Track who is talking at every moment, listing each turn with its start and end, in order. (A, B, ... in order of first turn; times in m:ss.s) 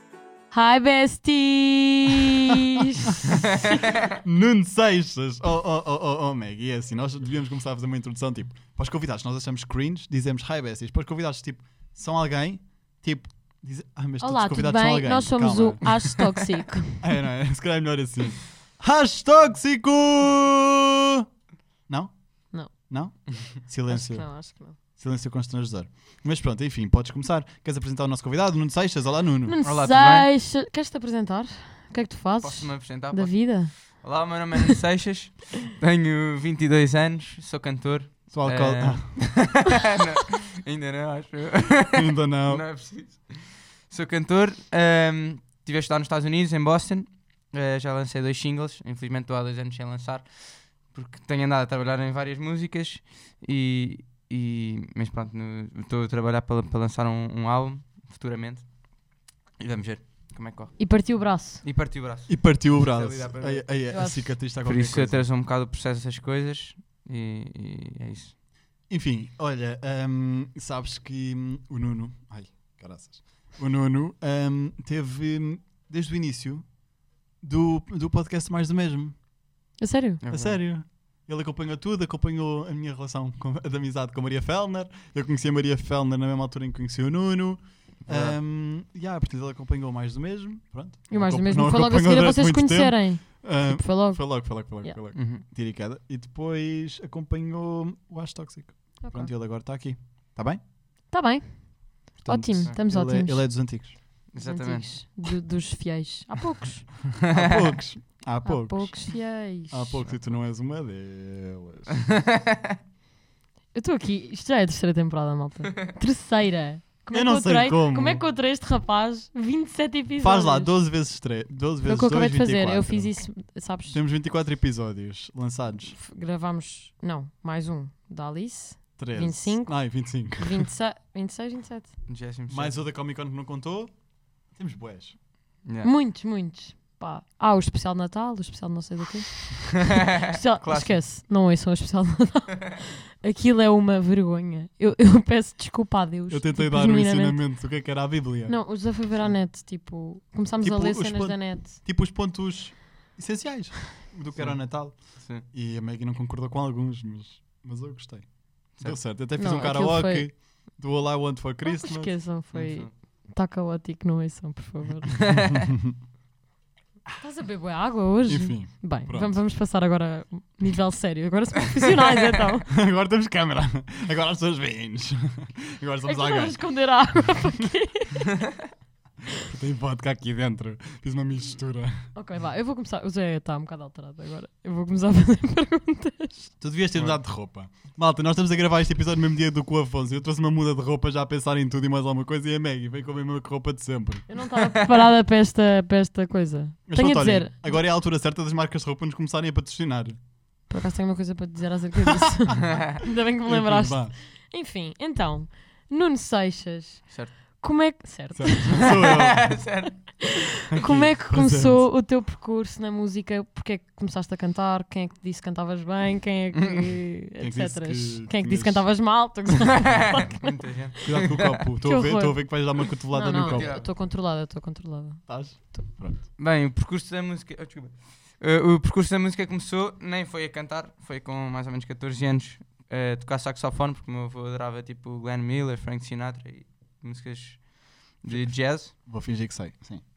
0:00.5-0:03.8 A
0:03.3-0:04.1 B
0:04.1-0:16.2 C
0:14.2-0:17.1 A
0:17.0-0:21.2 C
0:21.9-0:29.6 C
0:23.9-0:24.8 A
0:29.5-0:34.2 A
0:29.6-0:30.3 B
0:32.4-1:08.3 B
0:38.3-0:39.6 C
0:41.9-0:42.7 C
1:00.8-1:01.6 A
1:02.3-1:05.3 C
1:03.9-1:04.3 A
1:08.9-1:16.8 C
1:17.4-1:19.2 C
1:19.8-1:20.2 A
1:20.2-1:20.6 B
1:20.3-1:40.6 C
1:28.0-1:28.4 B
1:31.1-1:35.0 A
1:35.1-1:35.4 B
1:39.0-1:39.3 A
1:41.1-1:47.0 A
1:42.2-1:44.0 C
1:44.3-1:45.2 B
1:47.3-1:52.0 C
1:47.3-1:47.6 B
1:48.4-1:50.0 A
1:50.1-1:50.4 B
1:52.0-1:52.8 B
1:53.7-2:00.8 A
1:57.1-1:58.2 C
2:00.2-2:06.0 C
2:01.8-2:04.0 A
2:05.9-2:12.0 A
2:09.0-2:10.7 C
2:12.1-2:12.8 B
2:12.5-2:15.2 C
2:15.6-2:15.9 B
2:15.8-2:27.5 A
2:20.0-2:21.0 B
2:26.3-2:28.6 C
2:28.5-2:31.8 A
2:30.6-2:42.2 C
2:34.3-2:35.4 B
2:38.7-2:39.0 B
2:39.4-2:40.6 A
2:41.6-2:45.3 A
2:42.5-2:42.9 B
2:45.2-2:45.7 B
2:47.2-2:52.7 A
2:48.3-2:49.4 C
2:52.7-2:56.6 C
2:56.0-2:58.4 A
2:59.4-3:02.1 C
3:02.2-3:06.6 A
3:06.6-3:14.3 C
3:14.3-3:17.8 A
3:16.9-3:20.2 C
3:20.7-3:28.9 A
3:23.4-3:24.2 C
3:27.1-3:27.4 B
3:28.3-3:29.7 C
3:28.8-3:30.3 B
3:30.2-3:40.5 A
3:30.7-3:31.9 C
3:37.4-3:38.9 C
3:40.2-3:41.6 B
3:41.0-3:43.8 C
3:41.8-3:45.8 A
3:43.3-3:43.9 B
3:45.3-3:46.3 C
3:46.4-3:58.9 B
3:58.3-4:00.0 C